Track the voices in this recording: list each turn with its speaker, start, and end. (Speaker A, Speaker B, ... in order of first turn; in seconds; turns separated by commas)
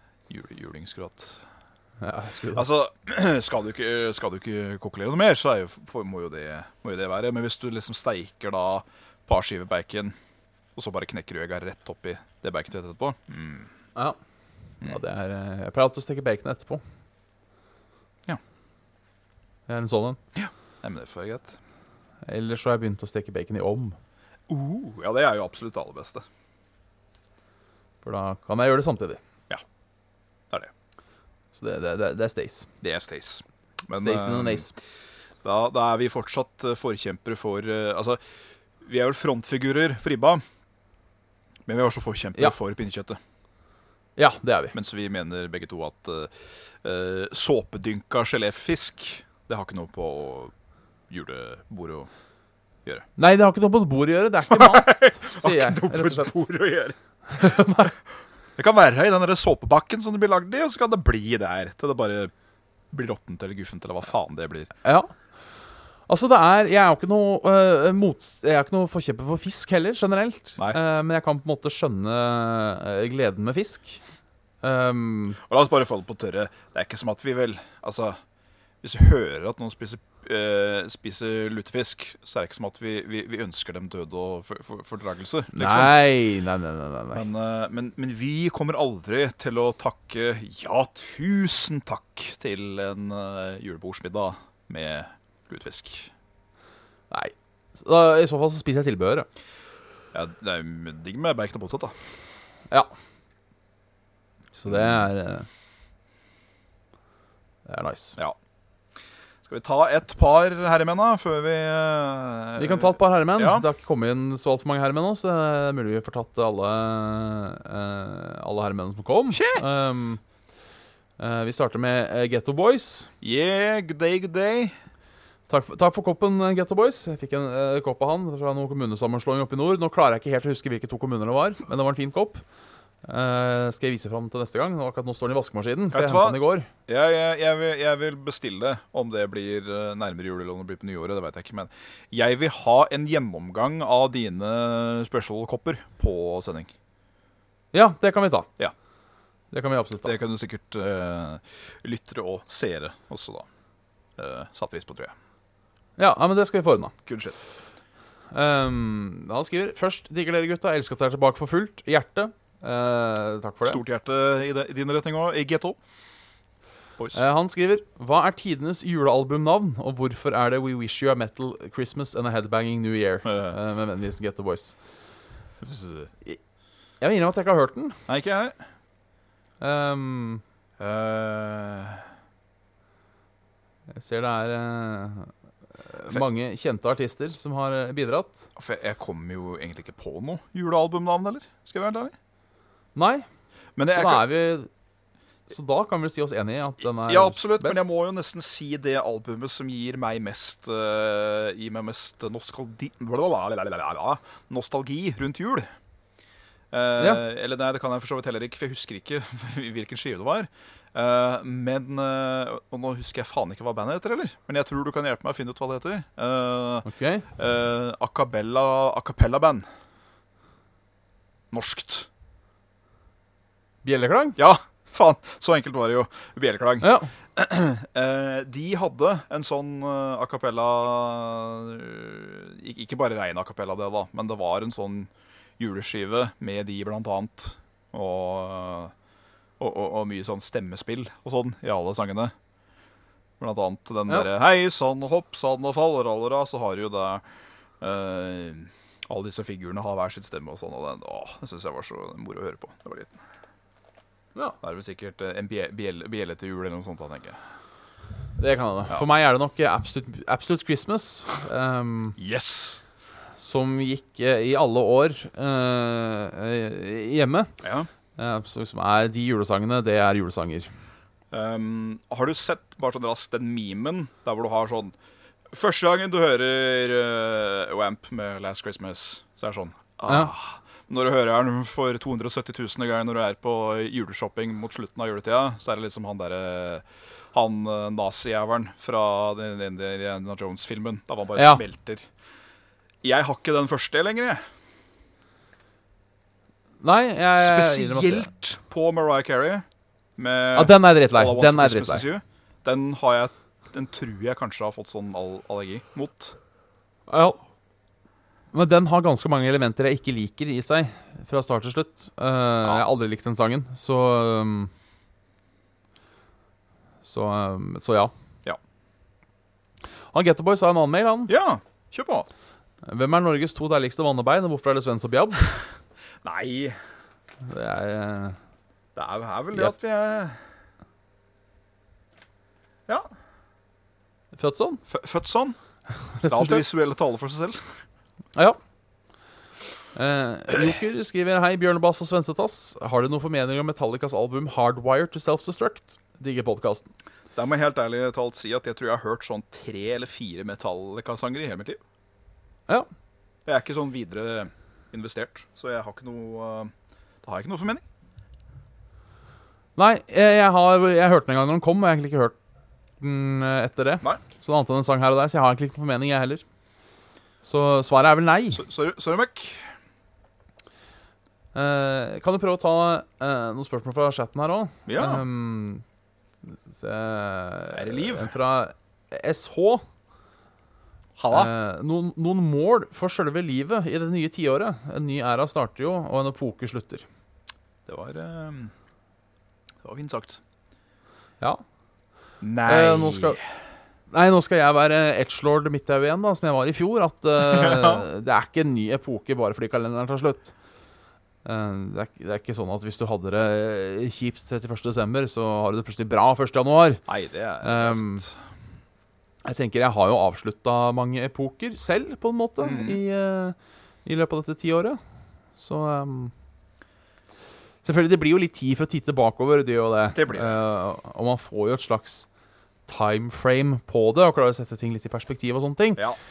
Speaker A: 0.3-1.4, Speaker B: 2.0-2.7, Speaker A: 2.5-10.1, Speaker A: 10.8-13.7, Speaker B: 14.8-16.8, Speaker B: 19.7-20.2, Speaker A: 20.3-21.6, Speaker B: 22.2-24.0, Speaker A: 24.5-26.2, Speaker B: 28.0-29.2, Speaker B: 31.5-32.7, Speaker A: 32.8-34.7, Speaker B: 33.9-34.7, Speaker A: 35.4-38.2, Speaker A: 38.8-40.4, Speaker A: 41.6-43.2, Speaker B: 44.2-44.8, Speaker A: 44.7-50.5, Speaker A: 51.1-52.1, Speaker B: 53.2-56.4, Speaker A: 54.5-57.5, Speaker B: 57.3-57.9, Speaker A: 58.5-62.3, Speaker A: 62.9-64.7, Speaker B: 64.8-65.1, Speaker B: 66.1-74.0, Speaker B: 74.6-75.4, Speaker A: 75.4-78.2, Speaker A: 78.8-86.0, Speaker B: 85.5-87.2, Speaker A: 87.1-96.1, Speaker B: 97.1-99.3, Speaker A: 100.1-102.0, Speaker B: 104.5-105.5, Speaker A: 104.7-105.0, Speaker B: 107.7-108.2, Speaker A: 109.5-113.6, Speaker B: 112.6-120.2, Speaker A: 119.3-119.6, Speaker B: 121.2-123.1, Speaker A: 123.2-124.8, Speaker B: 125.5-132.4, Speaker B: 133.0-136.7, Speaker A: 135.9-146.7, Speaker B: 147.7-148.5, Speaker B: 149.5-150.1, Speaker A: 150.0-153.5, Speaker A: 154.2-155.1, Speaker B: 156.0-156.9, Speaker A: 157.1-157.3, Speaker B: 158.3-163.8, Speaker A: 163.7-165.8, Speaker B: 167.1-174.8, Speaker A: 173.2-173.6, Speaker A: 175.6-176.1, Speaker B: 177.0-178.0, Speaker A: 178.1-178.6, Speaker B: 179.6-180.4, Speaker A: 180.8-182.1, Speaker B: 183.9-185.3, Speaker B: 185.8-188.5, Speaker A: 188.6-192.1, Speaker B: 192.9-193.2, Speaker A: 193.8-194.2, Speaker B: 193.9-194.7, Speaker B: 195.5-197.8, Speaker A: 197.1-205.7, Speaker A: 206.7-216.8, Speaker B: 216.8-217.3, Speaker A: 217.4-219.6, Speaker A: 221.5-222.1, Speaker B: 223.8-224.4, Speaker A: 224.4-238.9, Speaker B: 226.8-227.1, Speaker A: 239.6-242.3, Speaker A: 243.4-247.2, Speaker A: 247.8-253.2, Speaker A: 254.6-257.4, Speaker B: 258.4-262.2, Speaker A: 262.2-262.8, Speaker B: 263.4-267.5, Speaker A: 267.6-267.9, Speaker B: 268.2-270.7, Speaker A: 271.3-274.9, Speaker A: 275.5-292.1, Speaker B: 280.1-280.3, Speaker B: 291.4-291.6, Speaker A: 293.0-294.4, Speaker B: 296.8-298.3, Speaker A: 297.4-299.6, Speaker A: 300.2-306.4, Speaker B: 300.5-302.1, Speaker B: 307.1-307.4, Speaker B: 308.5-314.7, Speaker B: 317.0-318.1, Speaker B: 320.1-321.3, Speaker A: 321.3-322.3, Speaker B: 322.8-325.5, Speaker A: 326.2-326.8, Speaker B: 327.4-328.4, Speaker A: 328.9-330.4, Speaker B: 334.3-334.8, Speaker A: 334.9-335.6, Speaker B: 336.0-336.7, Speaker A: 336.2-337.8, Speaker B: 339.9-346.9, Speaker A: 347.4-351.8, Speaker A: 353.4-356.7, Speaker A: 357.2-357.8, Speaker B: 359.8-362.4, Speaker B: 363.0-366.4, Speaker B: 367.4-368.6, Speaker A: 368.5-369.7, Speaker B: 371.5-375.8, Speaker A: 374.9-375.2, Speaker B: 376.5-379.8, Speaker A: 377.7-378.3, Speaker A: 381.2-381.5, Speaker B: 381.3-387.0, Speaker A: 387.9-388.7, Speaker A: 389.8-390.4, Speaker A: 392.4-393.5, Speaker B: 392.6-393.4, Speaker B: 394.1-400.5, Speaker A: 397.4-398.0, Speaker B: 401.4-407.0, Speaker A: 407.1-408.4, Speaker B: 407.6-408.2, Speaker B: 409.4-415.0, Speaker A: 412.6-413.0, Speaker B: 415.6-416.3, Speaker B: 417.8-422.3, Speaker A: 420.1-420.6, Speaker B: 422.9-426.0